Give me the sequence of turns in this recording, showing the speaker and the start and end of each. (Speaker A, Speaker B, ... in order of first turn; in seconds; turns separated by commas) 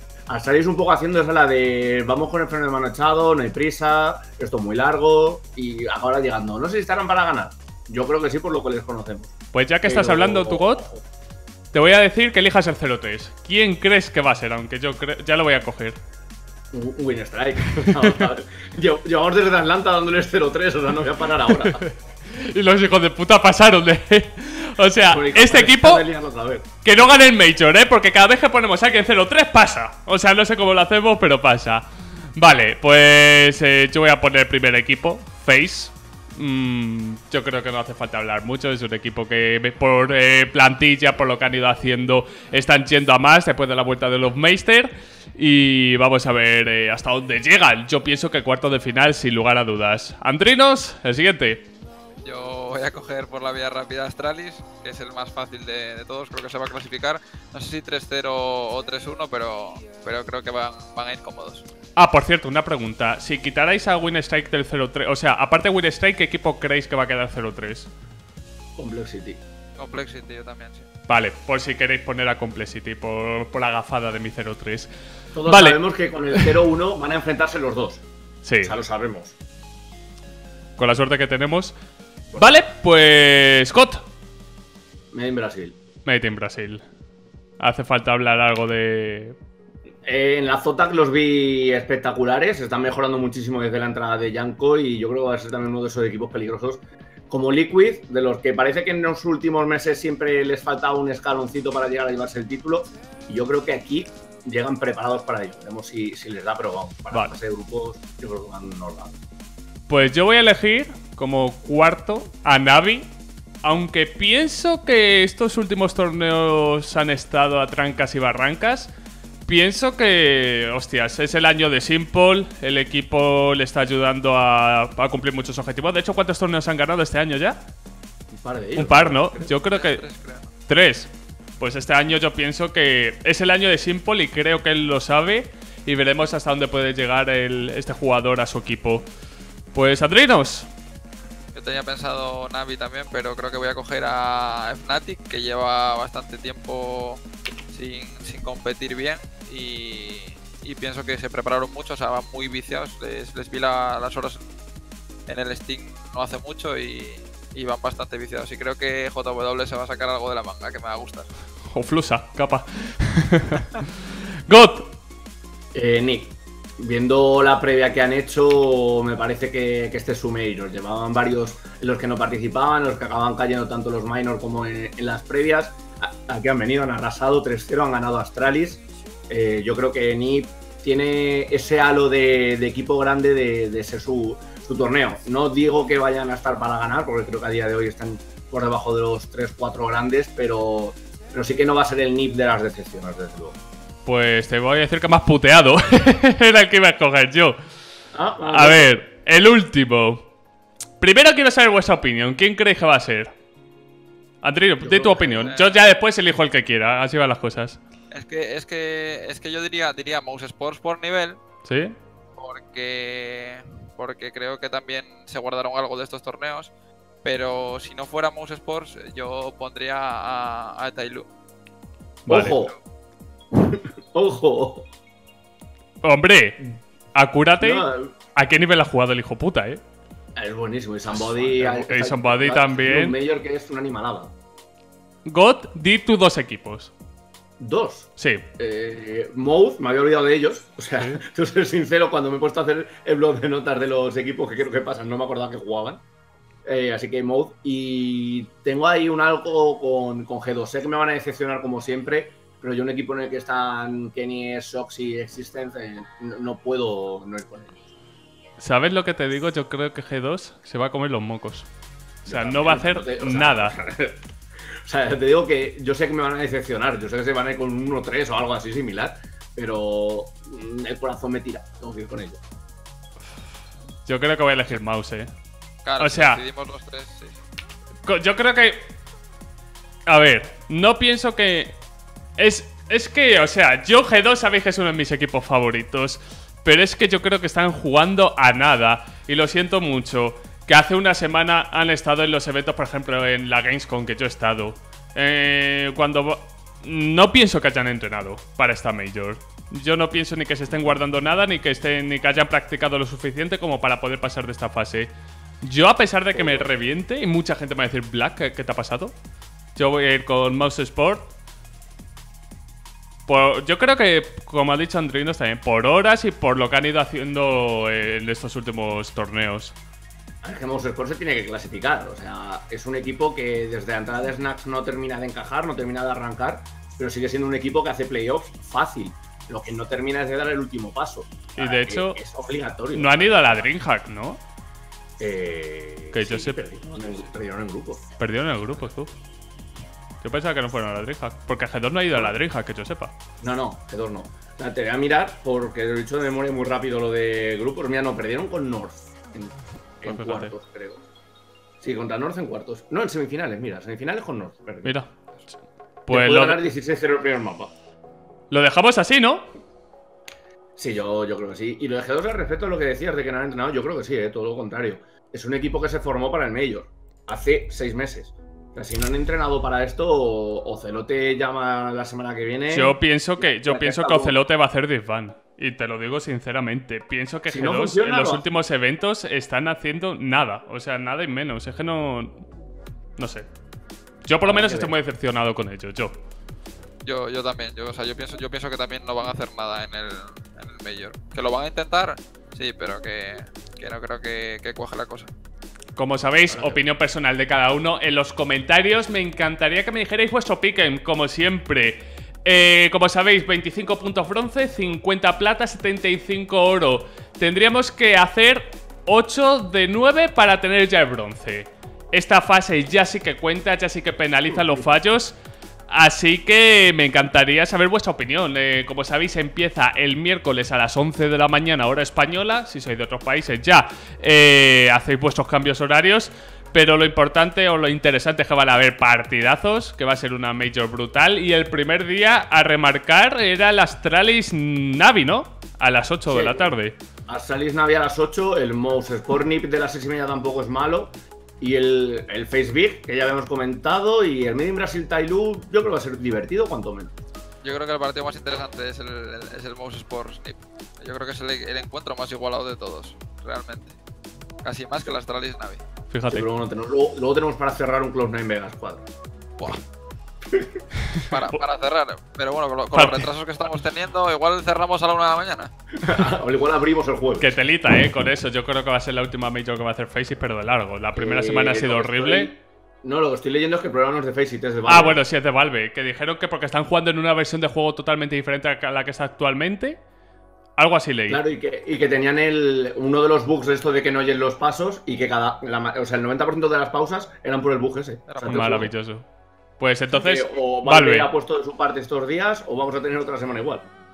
Speaker A: 0.3-9.3, Speaker B: 9.5-10.8, Speaker A: 9.8-11.0, Speaker B: 11.7-16.0, Speaker A: 16.7-21.8, Speaker B: 17.7-18.3, Speaker B: 21.6-26.0, Speaker A: 25.1-26.6, Speaker B: 26.8-51.6, Speaker C: 52.2-61.6, Speaker B: 62.0-67.9, Speaker A: 68.8-69.4, Speaker C: 69.8-70.8, Speaker B: 71.1-74.9, Speaker A: 75.3-78.0, Speaker B: 75.5-75.8, Speaker B: 78.4-78.8, Speaker A: 78.6-79.4, Speaker B: 80.8-81.8, Speaker A: 82.3-82.6, Speaker B: 82.4-84.0, Speaker A: 85.1-85.8, Speaker B: 86.0-86.8, Speaker B: 87.6-89.3, Speaker A: 90.0-109.2, Speaker B: 109.9-113.1, Speaker B: 113.6-118.9, Speaker B: 119.4-127.6, Speaker A: 128.3-129.6, Speaker B: 128.8-130.0, Speaker C: 129.6-130.5, Speaker B: 130.7-139.0, Speaker B: 139.7-140.7, Speaker C: 141.5-147.2, Speaker C: 147.7-154.4, Speaker C: 155.3-161.3, Speaker B: 161.7-163.8, Speaker B: 164.5-164.9, Speaker A: 165.7-193.6, Speaker B: 194.1-197.6, Speaker A: 198.1-198.9, Speaker B: 198.5-200.2, Speaker B: 201.0-203.3, Speaker B: 204.4-207.8, Speaker A: 204.8-205.4, Speaker C: 205.3-205.9, Speaker C: 208.1-211.4, Speaker B: 211.6-211.9, Speaker C: 212.3-216.7, Speaker C: 217.2-221.2, Speaker B: 222.2-222.6, Speaker A: 222.3-222.7, Speaker A: 223.6-224.8, Speaker B: 226.0-229.8, Speaker A: 227.6-228.1, Speaker A: 230.3-234.3, Speaker B: 231.1-233.2, Speaker B: 235.2-236.9, Speaker A: 237.6-246.0, Speaker B: 238.2-238.4, Speaker B: 240.9-241.2, Speaker A: 246.6-257.8, Speaker B: 258.6-261.7, Speaker B: 262.2-263.7, Speaker A: 262.3-264.2, Speaker A: 264.8-272.4, Speaker B: 274.1-275.3, Speaker C: 275.8-277.4, Speaker B: 276.0-276.4, Speaker B: 278.1-278.9, Speaker B: 280.1-281.8, Speaker B: 282.4-305.1, Speaker A: 300.7-301.0, Speaker B: 305.6-309.1, Speaker A: 306.3-306.7, Speaker B: 309.8-311.3, Speaker B: 313.3-319.8, Speaker A: 320.4-333.7, Speaker B: 331.5-332.2, Speaker B: 332.9-334.4, Speaker A: 335.2-338.0, Speaker B: 336.1-336.6, Speaker B: 338.2-339.1, Speaker B: 340.2-343.1, Speaker A: 343.4-351.1, Speaker B: 350.0-350.5, Speaker A: 351.8-355.0, Speaker B: 354.8-355.5, Speaker B: 356.1-356.7, Speaker A: 356.1-357.7, Speaker B: 358.5-359.5, Speaker A: 360.8-374.4, Speaker B: 372.7-382.4, Speaker A: 377.5-378.4, Speaker B: 383.2-383.5, Speaker B: 384.2-386.1, Speaker A: 384.4-385.0, Speaker C: 387.0-395.3, Speaker B: 395.9-415.4, Speaker A: 396.4-396.8, Speaker A: 414.6-414.8, Speaker B: 415.9-436.9, Speaker A: 436.3-436.7, Speaker A: 437.3-447.1, Speaker C: 447.6-453.9, Speaker C: 454.6-455.8, Speaker B: 456.1-456.5, Speaker A: 456.3-459.1, Speaker C: 461.3-465.7, Speaker B: 462.9-463.3, Speaker A: 466.0-467.5, Speaker B: 467.4-472.5, Speaker A: 471.1-475.2, Speaker B: 474.9-480.0, Speaker B: 480.8-481.4, Speaker A: 481.3-488.9, Speaker C: 488.3-488.7, Speaker B: 488.4-489.2, Speaker B: 489.8-491.3, Speaker A: 490.1-493.9